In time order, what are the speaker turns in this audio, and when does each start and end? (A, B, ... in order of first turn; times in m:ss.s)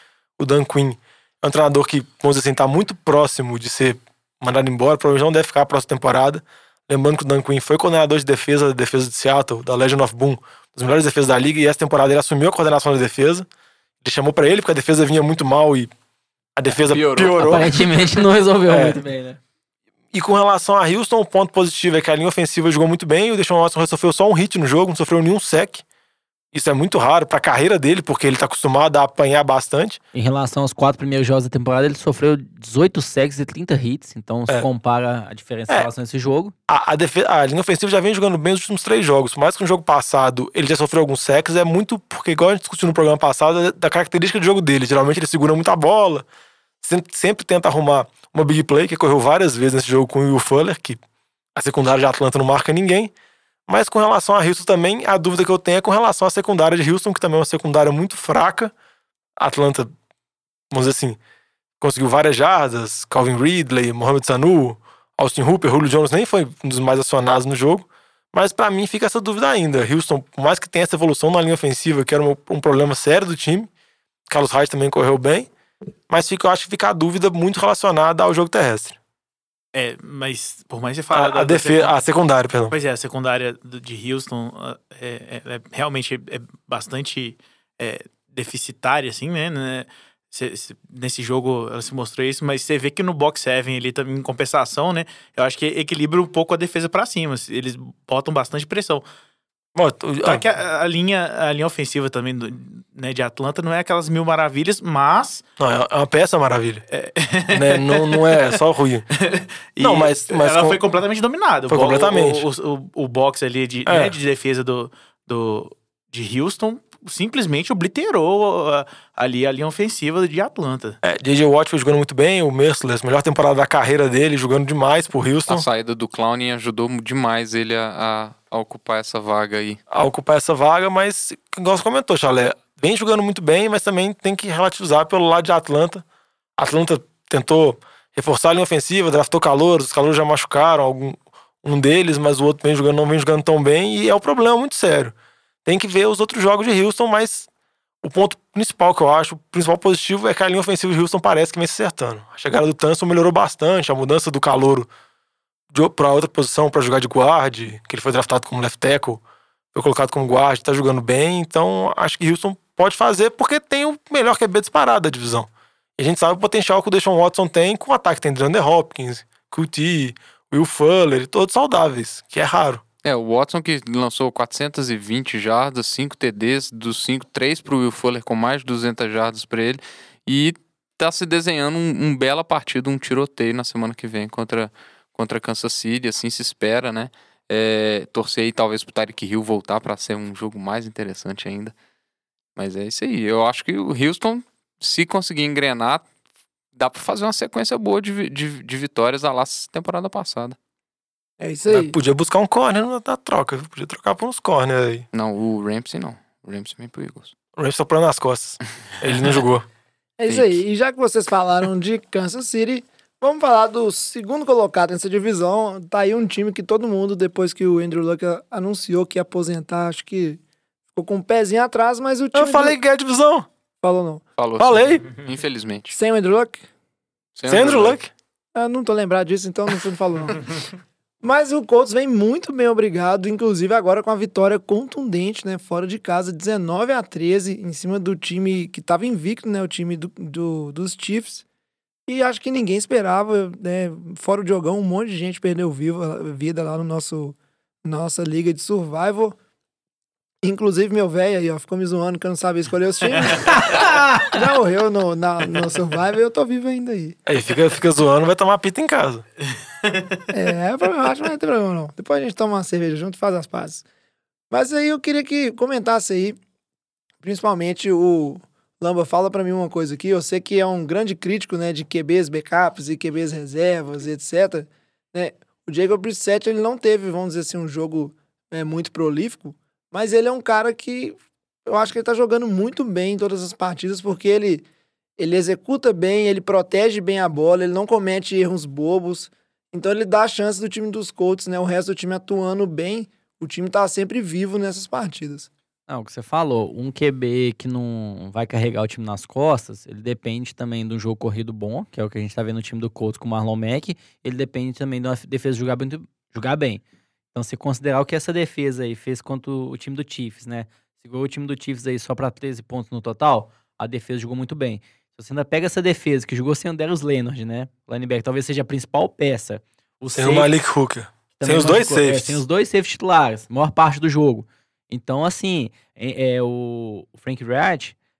0:00.4-0:13.5 A
0:14.0-0:15.9 A
0:16.6-0:17.7 A
0:16.9-0:17.6 B
0:17.4-0:19.4 C
0:18.7-0:19.0 A
0:20.1-0:25.8 A
0:26.5-0:30.0 A
0:30.1-0:36.5 C
0:36.7-0:46.2 A
0:46.8-0:51.0 A
0:51.6-0:53.1 A
0:53.7-0:58.7 A
0:59.4-0:59.9 A
1:00.7-1:01.2 A
1:01.8-1:13.7 A
1:14.3-1:15.5 A
1:16.1-1:19.0 A
1:19.7-1:22.0 D
1:21.1-1:22.7 A
1:22.7-1:39.0 D
1:39.8-1:40.4 A
1:40.2-1:45.4 D
1:45.6-1:46.8 A
1:46.9-1:48.4 D
1:47.5-1:49.1 A
1:49.3-2:01.0 D
1:49.8-1:50.8 A
1:51.7-1:52.4 A
1:53.8-1:54.2 A
2:01.0-2:05.6 A
2:05.5-2:09.8 B
2:09.9-2:16.0 A
2:16.6-2:25.1 A
2:25.6-2:27.5 A
2:28.0-2:34.9 A
2:35.7-2:39.2 A
2:39.7-2:52.8 A
2:53.0-3:11.7 B
3:12.6-3:16.1 B
3:16.7-3:20.6 B
3:21.4-3:21.9 E
3:21.7-3:25.0 A
3:25.1-3:27.3 B
3:27.6-3:29.6 A
3:30.2-3:40.4 E
3:30.3-3:30.6 B
3:40.9-3:42.8 E
3:42.3-3:43.5 A
3:43.8-3:44.2 E
3:44.4-3:46.0 B
3:44.6-3:45.0 A
3:45.9-3:46.6 E
3:47.4-3:48.0 B
3:47.5-3:48.1 A
3:48.5-3:50.5 E
3:51.2-4:01.4 E
4:02.1-4:09.4 E
4:10.4-4:17.2 E
4:17.2-4:19.2 A
4:19.9-4:20.2 D
4:20.3-4:23.8 E
4:24.5-4:26.4 E
4:27.2-4:44.6 E
4:45.2-4:55.5 E
4:55.9-5:06.8 C
5:07.3-5:20.5 C
5:20.1-5:22.4 A
5:21.4-5:27.9 C